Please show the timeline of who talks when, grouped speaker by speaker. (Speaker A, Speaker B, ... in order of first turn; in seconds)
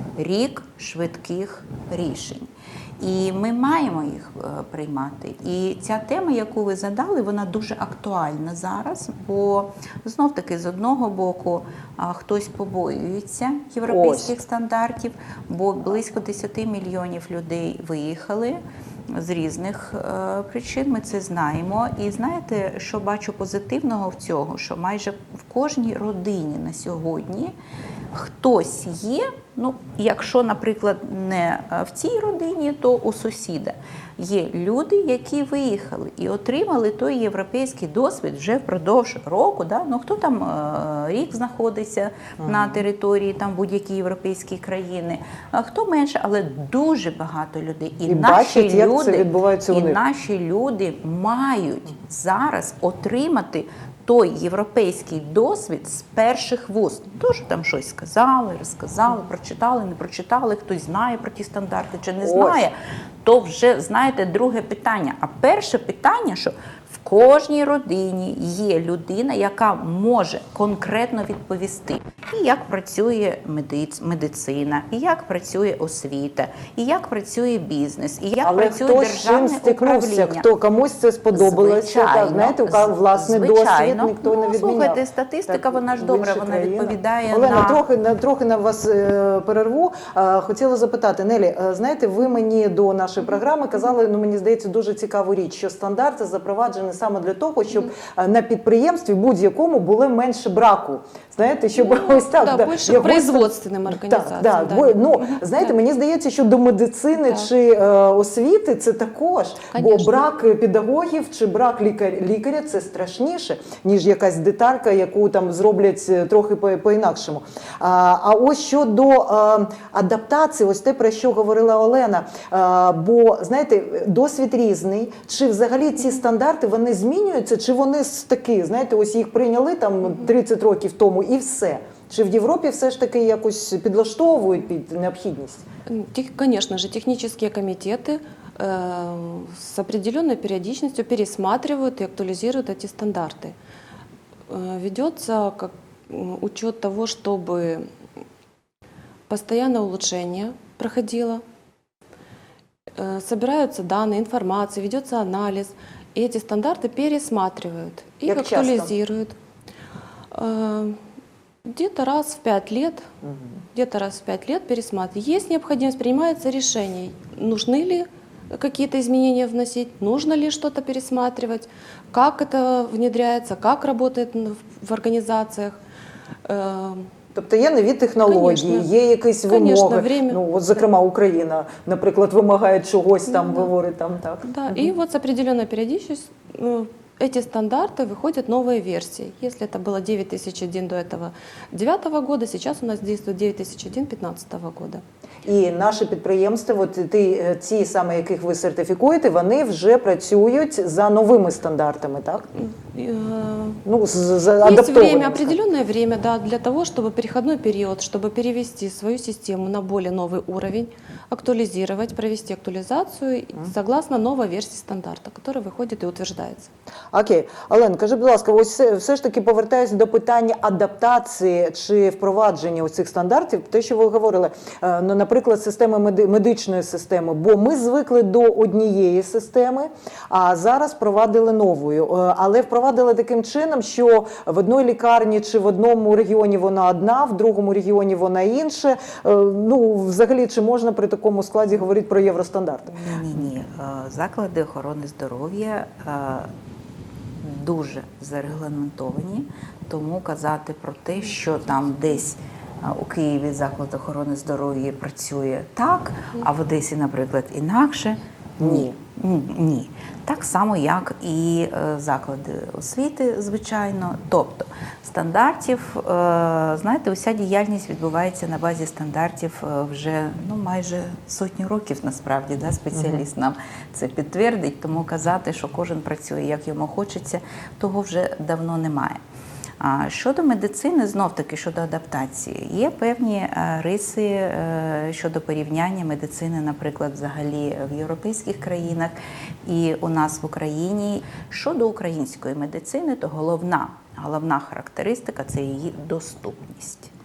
Speaker A: 0.2-18.6, 19.1-27.5, 28.1-80.4, 81.3-87.8, 242.9-246.5, 247.4-279.2, 279.8-289.1, 289.6-297.1
Speaker B: 13.9-14.3, 42.4-42.8, 48.1-50.0, 62.2-62.7, 78.4-135.6, 158.2-158.9, 163.2-163.6, 177.3-184.9, 195.4-202.5, 203.8-205.6, 217.1-243.1, 258.6-258.9, 272.9-273.2
Speaker C: 101.8-105.7, 109.7-110.1, 135.9-143.6, 144.5-147.9, 149.3-151.4, 152.9-159.3, 160.3-161.0, 161.6-163.1, 163.7-175.8, 176.4-177.1, 178.2-178.9, 179.5-180.4, 184.4-195.0, 202.6-203.8, 204.6-216.7